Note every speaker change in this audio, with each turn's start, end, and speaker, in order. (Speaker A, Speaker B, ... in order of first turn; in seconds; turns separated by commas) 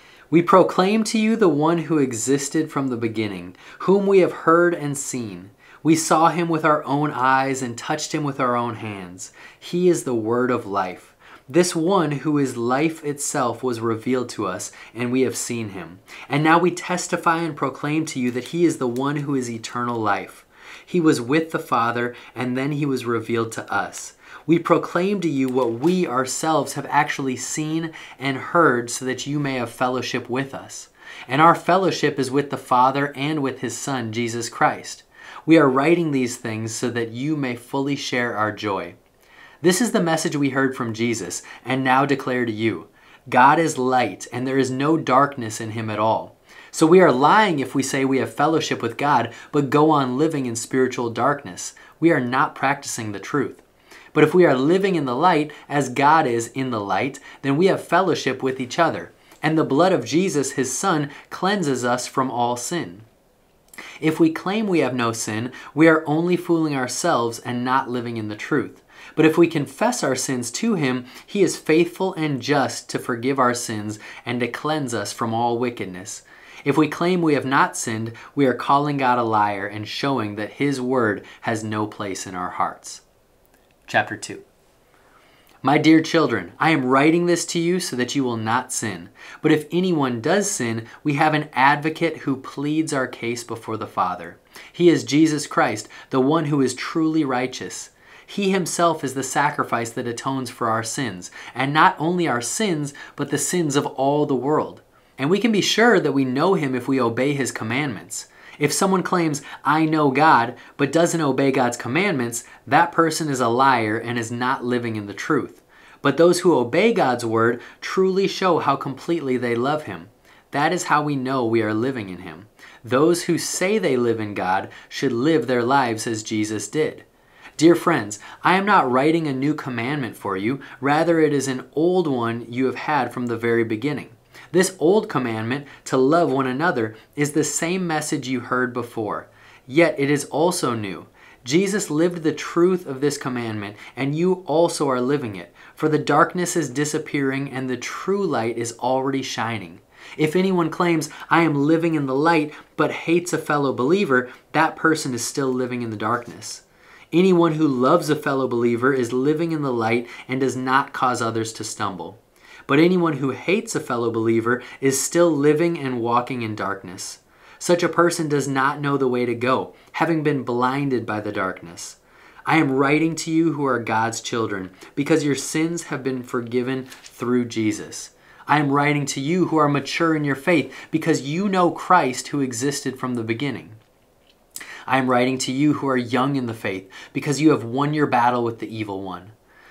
Speaker A: 0.3-39.0, Speaker A: 39.6-53.6, Speaker A: 54.1-63.0, Speaker A: 64.0-83.0, Speaker A: 83.9-84.4, Speaker A: 85.6-127.0, Speaker A: 127.6-183.8, Speaker A: 184.9-189.3